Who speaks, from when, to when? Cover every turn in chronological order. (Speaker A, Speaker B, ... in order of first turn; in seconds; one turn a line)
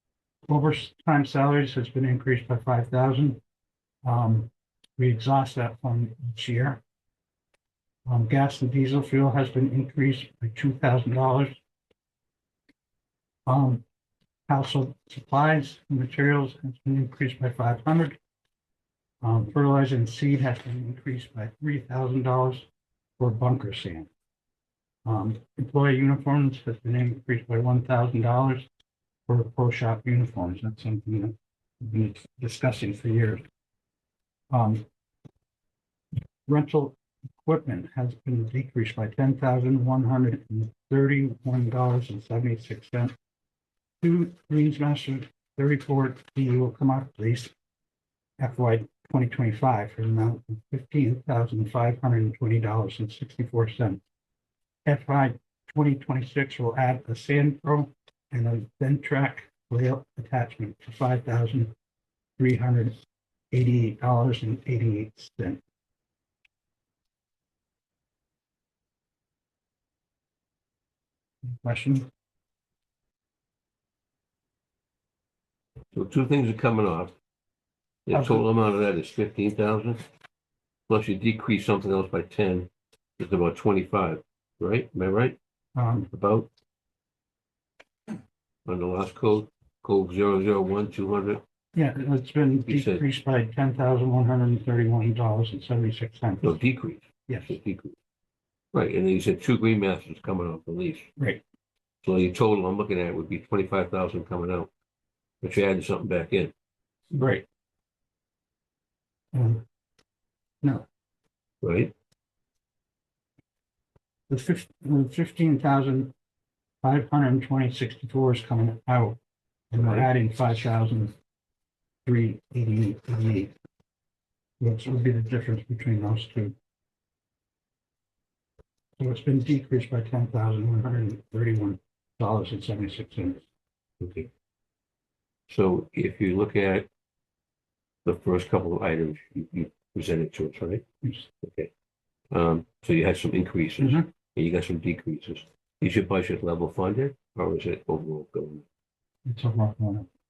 Speaker A: 0.5-3.4
Speaker A: 4.0-6.8
Speaker A: 8.1-11.6
Speaker A: 13.4-13.8
Speaker A: 14.5-18.1
Speaker A: 19.2-22.7
Speaker A: 23.2-24.1
Speaker A: 25.1-28.6
Speaker A: 29.3-33.4
Speaker A: 34.5-34.8
Speaker A: 36.5-43.1
Speaker A: 44.0-47.5
Speaker A: 48.4-54.0
Speaker A: 54.9-61.7
Speaker A: 62.4-63.0
Speaker A: 63.5-65.6
Speaker A: 71.5-72.1
Speaker B: 75.9-77.1
Speaker B: 78.1-80.0
Speaker A: 78.1-78.4
Speaker B: 80.9-85.4
Speaker A: 85.7-86.1
Speaker B: 86.1-86.5
Speaker B: 88.7-91.4
Speaker A: 91.7-96.6
Speaker B: 92.7-93.0
Speaker B: 96.4-98.0
Speaker A: 97.3-97.6
Speaker B: 98.7-101.1
Speaker A: 101.2-101.4
Speaker B: 102.0-104.7
Speaker B: 105.4-106.5
Speaker A: 107.1-107.4
Speaker A: 109.3-109.6
Speaker B: 111.6-111.9
Speaker A: 114.3-116.1
Speaker A: 116.8-119.2
Speaker A: 119.7-121.1
Speaker B: 119.8-120.1
Speaker A: 122.0-123.5
Speaker A: 124.6-126.5
Speaker A: 129.0-133.4
Speaker B: 134.0-134.3
Speaker B: 135.5-136.9
Speaker B: 138.0-140.8
Speaker A: 141.0-141.3
Speaker B: 141.4-141.7
Speaker B: 142.3-148.6
Speaker A: 143.8-144.1
Speaker A: 149.2-150.1